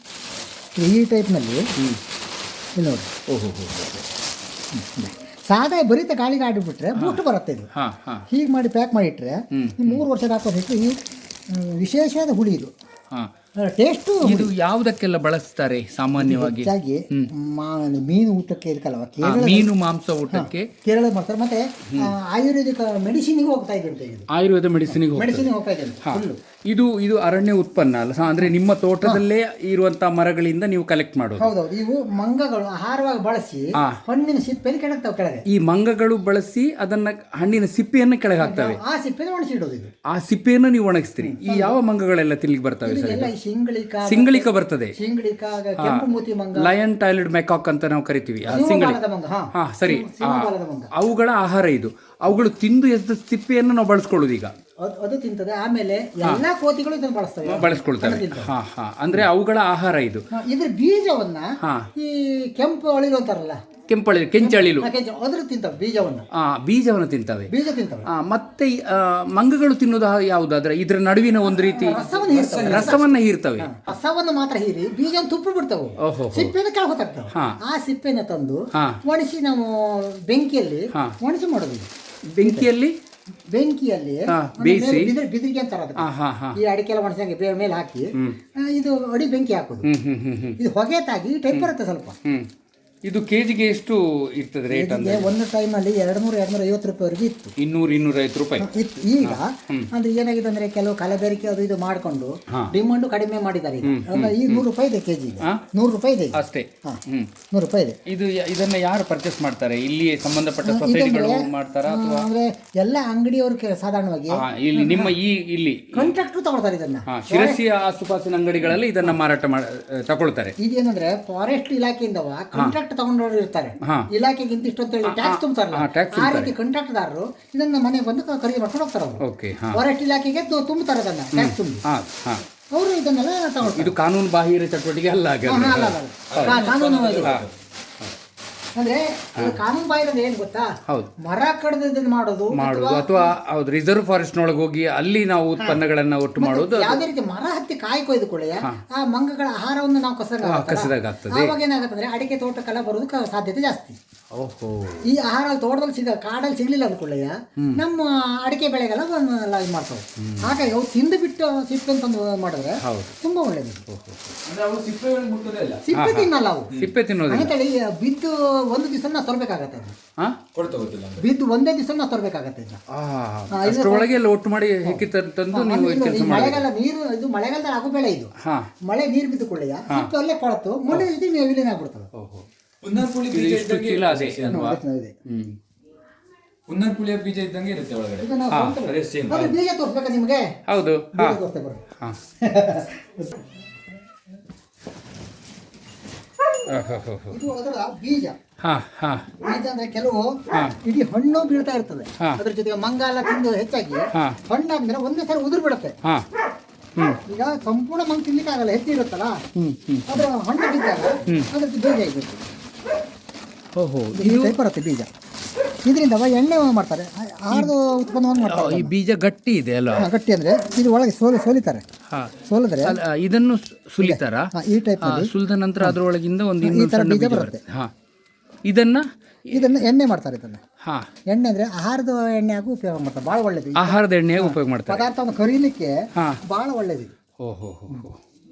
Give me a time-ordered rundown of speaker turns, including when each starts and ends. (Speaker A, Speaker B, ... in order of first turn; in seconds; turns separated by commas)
Speaker A: 0.8-1.6, Speaker A: 2.8-3.1, Speaker B: 3.3-4.1, Speaker A: 4.8-7.7, Speaker B: 7.0-7.2, Speaker B: 7.7-8.2, Speaker A: 8.3-11.0, Speaker B: 9.5-10.0, Speaker A: 11.5-12.7, Speaker A: 13.6-14.5, Speaker B: 14.2-17.3, Speaker A: 16.2-19.7, Speaker B: 19.2-20.7, Speaker A: 20.3-24.3, Speaker B: 24.3-25.5, Speaker A: 24.9-26.4, Speaker B: 26.0-31.5, Speaker A: 31.4-35.5, Speaker B: 35.5-38.8, Speaker A: 38.4-39.9, Speaker B: 40.1-43.3, Speaker A: 41.2-41.8, Speaker A: 42.9-46.7, Speaker B: 44.0-45.0, Speaker B: 45.8-49.0, Speaker A: 48.5-50.9, Speaker B: 49.5-54.5, Speaker A: 54.8-58.5, Speaker B: 57.5-60.2, Speaker A: 60.3-63.6, Speaker B: 61.6-61.9, Speaker B: 63.9-64.9, Speaker A: 64.4-66.2, Speaker B: 66.3-67.5, Speaker A: 67.5-68.1, Speaker B: 68.1-72.0, Speaker A: 71.8-81.9, Speaker C: 72.0-73.1, Speaker B: 72.6-73.7, Speaker B: 76.0-76.5, Speaker B: 77.3-77.6, Speaker B: 78.7-79.0, Speaker B: 82.3-83.0, Speaker A: 82.4-82.7, Speaker A: 83.5-89.9, Speaker B: 84.3-85.1, Speaker B: 86.0-86.6, Speaker B: 89.8-90.6, Speaker A: 90.6-92.2, Speaker B: 93.0-95.3, Speaker A: 94.7-97.5, Speaker B: 97.6-98.7, Speaker A: 98.6-107.0, Speaker B: 99.2-99.9, Speaker B: 103.8-104.6, Speaker B: 106.3-107.3, Speaker A: 107.5-108.0, Speaker B: 108.1-112.3, Speaker A: 110.6-115.1, Speaker B: 114.3-116.1, Speaker A: 115.9-117.6, Speaker B: 117.1-120.5, Speaker A: 120.6-129.2, Speaker B: 123.8-124.1, Speaker B: 125.0-126.5, Speaker B: 129.2-129.8, Speaker A: 129.7-131.8, Speaker B: 131.3-132.4, Speaker A: 132.7-133.9, Speaker B: 133.6-137.5, Speaker A: 135.4-137.3, Speaker C: 136.3-137.5, Speaker A: 138.8-143.3, Speaker B: 140.9-141.1, Speaker B: 142.5-147.0, Speaker A: 145.6-145.8, Speaker A: 146.4-154.0, Speaker B: 150.4-151.6, Speaker B: 154.3-155.1, Speaker A: 155.0-163.8, Speaker B: 160.2-160.6, Speaker B: 162.8-163.2, Speaker B: 163.9-164.4, Speaker C: 164.4-165.9, Speaker A: 165.8-166.7, Speaker B: 165.9-167.5, Speaker A: 167.3-169.9, Speaker C: 170.5-171.3, Speaker A: 171.2-172.8, Speaker B: 172.9-176.7, Speaker A: 173.5-174.2, Speaker A: 174.8-178.3, Speaker B: 178.4-178.7, Speaker A: 178.9-182.1, Speaker B: 182.2-182.5, Speaker C: 182.8-184.7, Speaker B: 183.0-185.6, Speaker A: 184.5-185.2, Speaker C: 186.7-188.3, Speaker A: 188.2-190.5, Speaker B: 188.5-189.5, Speaker C: 188.9-189.5, Speaker B: 190.7-191.4, Speaker A: 191.1-191.8, Speaker A: 192.4-193.4, Speaker B: 196.7-197.4, Speaker A: 197.3-198.4, Speaker B: 198.6-199.3, Speaker A: 199.4-206.0, Speaker B: 200.5-200.8, Speaker B: 204.1-204.4, Speaker A: 207.3-209.4, Speaker B: 209.6-210.3, Speaker A: 210.1-212.4, Speaker B: 213.8-214.6, Speaker A: 214.2-215.1, Speaker A: 215.8-218.9, Speaker B: 218.5-220.1, Speaker A: 220.0-221.8, Speaker B: 222.1-224.5, Speaker A: 222.5-223.0, Speaker A: 224.0-226.0, Speaker B: 225.0-227.9, Speaker A: 226.6-227.6, Speaker B: 228.7-229.7, Speaker A: 229.5-230.6, Speaker B: 230.8-231.1, Speaker A: 231.3-237.1, Speaker B: 233.8-235.1, Speaker B: 237.4-238.2